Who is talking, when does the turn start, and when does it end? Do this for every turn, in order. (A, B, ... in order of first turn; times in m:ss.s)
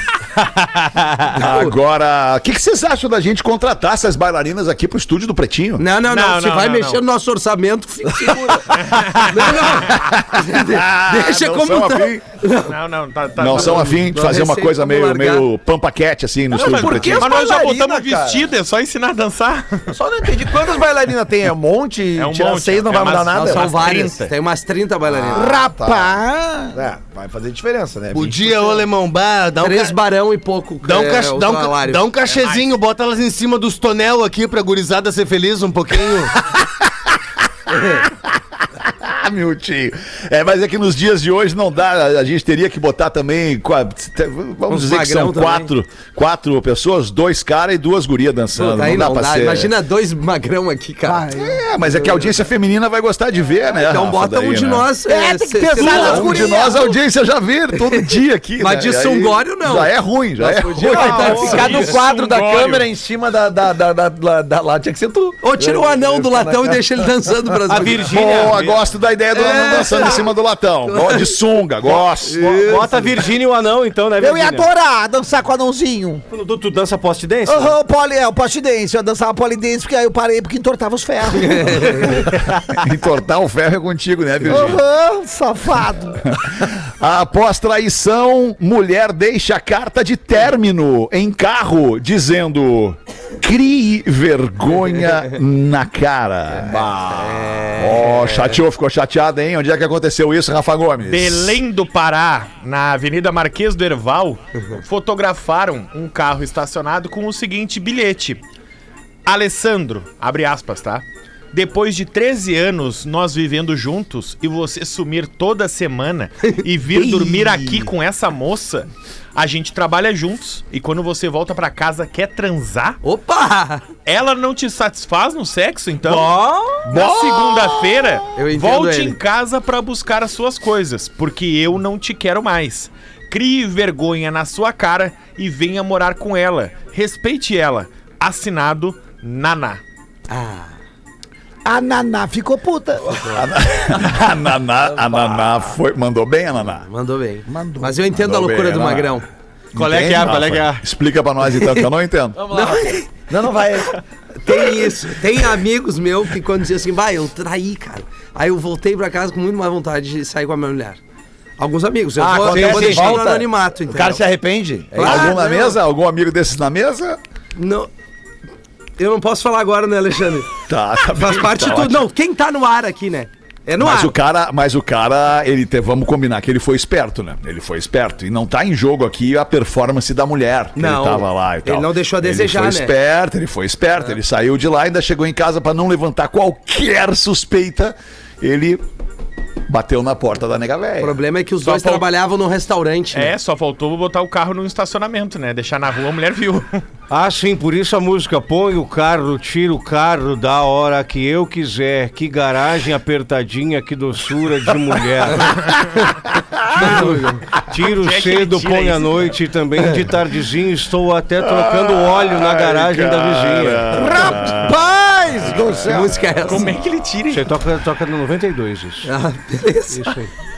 0:01.2-0:05.8 A
0:01.3-0:01.7 B
0:05.8-0:12.7 B
0:06.1-0:07.0 C
0:08.7-0:09.6 C
0:09.8-0:12.2 A
0:12.7-0:14.0 C
0:13.4-0:17.4 A
0:13.5-0:15.5 B
0:16.5-0:19.9 C
0:16.5-0:18.4 D
0:19.9-0:24.0 D
0:22.2-0:24.3 C
0:23.3-0:25.6 B
0:25.1-0:26.1 D
0:25.3-0:26.8 E
0:26.7-0:28.8 D
0:28.1-0:29.9 F
0:29.6-0:32.1 B
0:30.8-0:36.3 F
0:32.2-0:32.7 C
0:37.7-0:38.0 B
0:38.8-0:49.7 A
0:44.7-0:45.7 B
0:48.6-0:51.2 B
0:51.0-0:51.6 E
0:51.3-0:54.9 A
0:53.7-0:56.5 B
0:55.0-0:57.0 E
0:55.8-1:01.7 A
0:57.8-0:58.0 B
0:58.6-1:01.9 B
1:00.5-1:07.1 D
1:00.9-1:02.9 C
1:05.4-1:08.3 B
1:07.7-1:08.8 G
1:08.1-1:12.7 A
1:09.3-1:10.3 B
1:10.8-1:11.3 B
1:12.1-1:14.7 G
1:12.2-1:13.1 B
1:14.2-1:16.2 E
1:16.3-1:17.7 G
1:17.4-1:22.3 E
1:21.8-1:22.0 B
1:22.7-1:24.8 A
1:24.5-1:26.3 E
1:26.2-1:41.6 A
1:36.5-1:38.6 B
1:41.0-1:48.4 C
1:49.2-2:03.0 C
1:57.0-1:57.3 A
2:03.0-2:03.8 B
2:04.0-2:06.3 C
2:06.0-2:06.8 B
2:06.8-2:19.8 C
2:06.9-2:07.5 A
2:08.3-2:09.2 B
2:20.3-2:20.7 B
2:21.6-2:23.2 E
2:23.1-2:23.3 B
2:23.3-2:26.8 A
2:26.8-2:29.3 B
2:27.5-2:28.0 E
2:28.1-2:32.4 A
2:29.7-2:30.8 G
2:31.5-2:31.9 B
2:32.4-2:34.7 D
2:32.5-2:33.1 B
2:34.4-2:41.0 B
2:41.6-2:44.2 B
2:42.2-2:45.5 D
2:42.5-2:43.2 G
2:44.9-2:45.7 B
2:45.0-2:47.2 A
2:47.6-2:47.9 B
2:49.0-2:50.5 B
2:50.7-2:52.1 A
2:51.1-2:54.1 B
2:53.8-3:08.8 A
3:00.8-3:02.9 B
3:09.7-3:11.1 A
3:11.0-3:13.3 B
3:11.6-3:12.0 C
3:13.1-3:16.8 C
3:17.1-3:25.9 G
3:26.7-3:34.3 G
3:26.8-3:27.3 B
3:27.8-3:29.3 C
3:31.4-3:34.8 A
3:33.9-3:36.2 E
3:35.4-3:36.1 A
3:35.9-3:36.7 B
3:36.4-3:37.5 C
3:37.3-3:39.1 G
3:39.0-3:40.2 B
3:39.9-3:40.3 G